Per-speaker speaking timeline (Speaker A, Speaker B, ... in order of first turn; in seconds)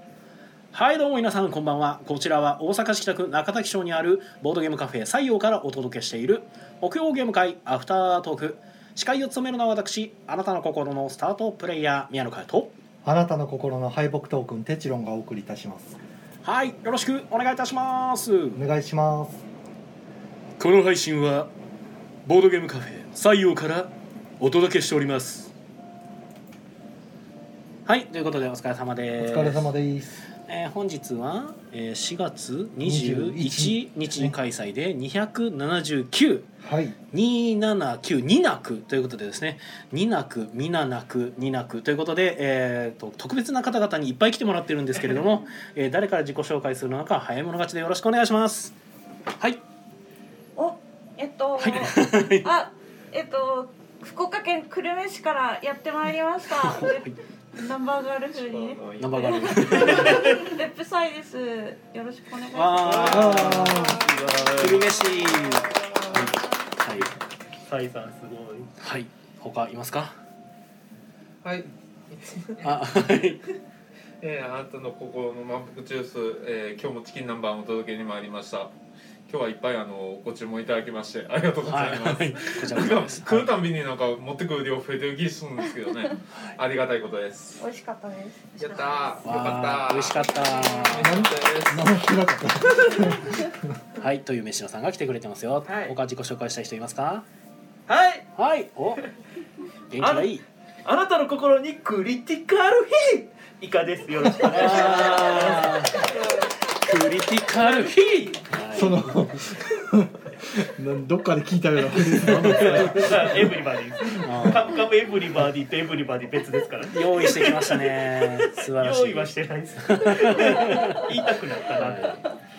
Speaker A: 0.7-12.7, 16.4-18.6, 20.6-21.5, 22.2-25.5, 27.9-29.7, 30.4-36.5, 37.1-48.7, 51.6-52.5, 59.0-60.2, 62.5-64.0, 64.5-67.1, 68.8-70.2, 72.6-73.4, 81.6-83.5, 89.2-91.2, 94.0-97.2, 98.3-99.0, 99.9-100.4, 104.4-106.1, 106.6-109.4, 112.4-113.1, 114.2-114.8, 116.9-121.1, 121.7-122.2
Speaker B: 13.0-16.0, 18.5-19.4, 29.2-30.2, 32.8-34.4, 36.6-37.0, 63.0-64.0, 91.0-93.6, 108.7-113.4
Speaker C: 50.5-63.4, 87.6-88.5
Speaker D: 58.4-60.3, 71.4-72.6, 74.2-78.7, 79.3-87.6, 88.6-91.9
Speaker E: 62.8-64.9, 67.7-68.7, 95.7-95.9, 97.9-98.3, 100.0-106.2, 107.5-108.3, 112.4-122.1